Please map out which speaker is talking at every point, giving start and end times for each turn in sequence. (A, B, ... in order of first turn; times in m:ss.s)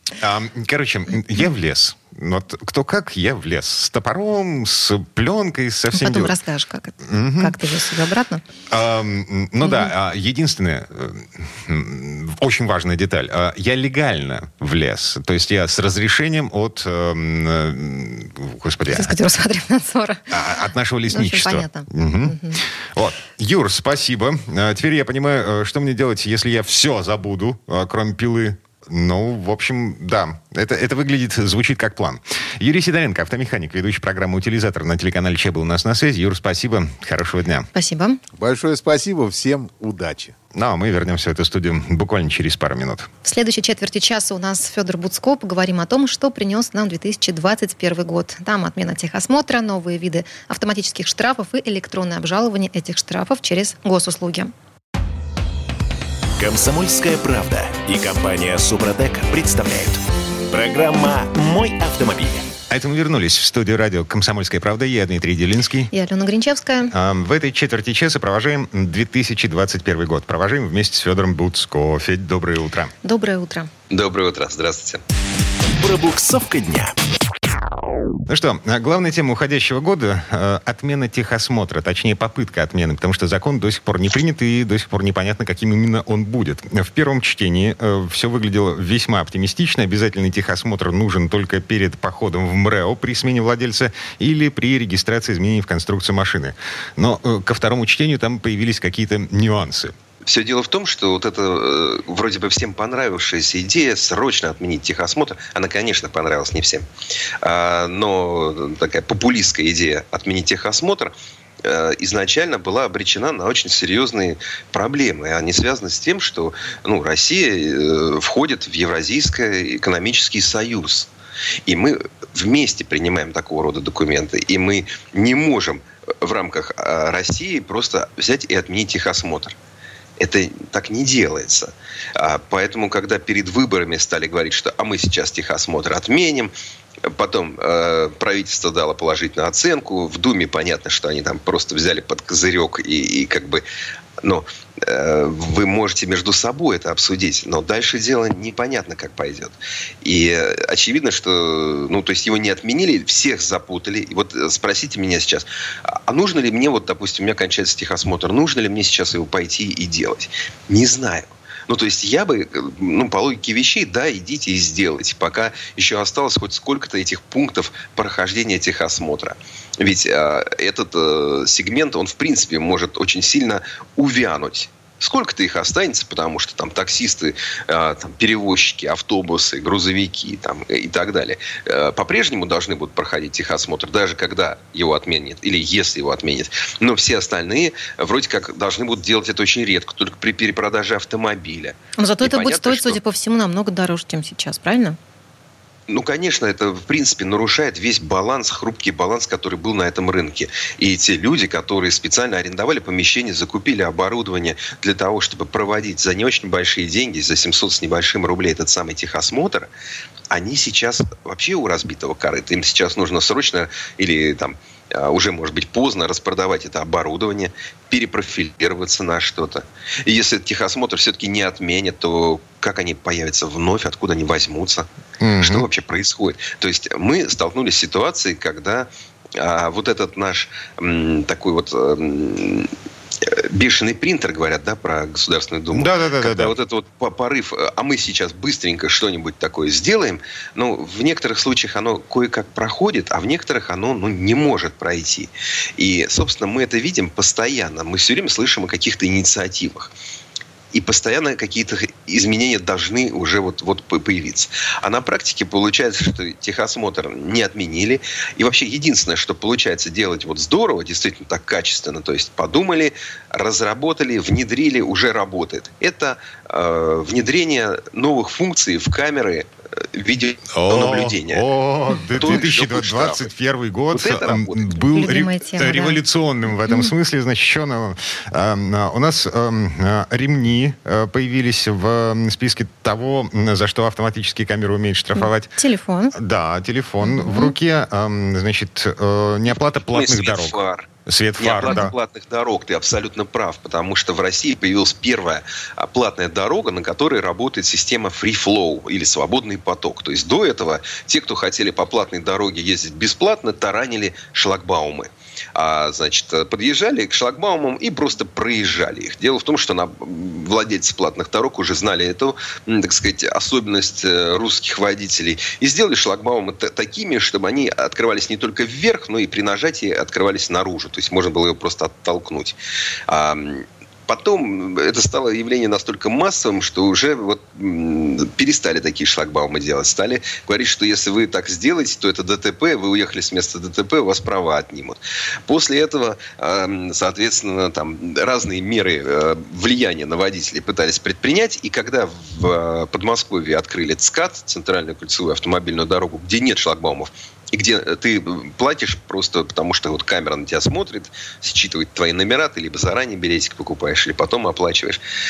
0:00.2-0:06.4 A
0:05.9-0:08.4 B
0:07.0-0:07.6 A
0:08.7-0:19.2 A
0:09.6-0:09.9 B
0:18.9-0:20.2 B
0:20.3-0:37.7 A
0:21.1-0:22.6 B
0:37.7-0:38.2 B
0:38.3-0:40.3 C
0:40.5-0:43.1 A
0:43.2-0:54.5 B
0:56.4-1:02.5 D
1:02.7-1:05.9 A
1:05.9-1:06.9 B
1:06.9-1:12.9 A
1:13.0-1:13.7 B
1:13.9-1:15.0 E
1:15.8-1:16.9 D
1:18.3-1:39.9 A
1:40.3-1:46.8 E
1:47.4-2:01.1 E
2:01.6-2:09.6 E
2:10.2-2:16.5 E
2:17.1-2:23.6 E
2:24.2-3:13.0 E
3:12.0-3:15.0 B
3:15.9-3:29.7 E
3:30.3-3:44.9 E
3:45.2-3:45.6 A
3:45.4-3:52.7 E
3:53.2-4:09.9 E
3:55.7-3:56.6 A
4:10.7-4:31.5 E
4:30.5-4:45.5 A
4:32.1-4:33.3 E
4:33.9-4:34.8 E
4:34.9-4:36.0 B
4:45.2-4:46.1 B
4:46.1-4:51.9 A
4:47.0-4:47.5 B
4:49.5-4:50.9 E
4:51.4-5:22.6 E
5:23.1-5:55.0 E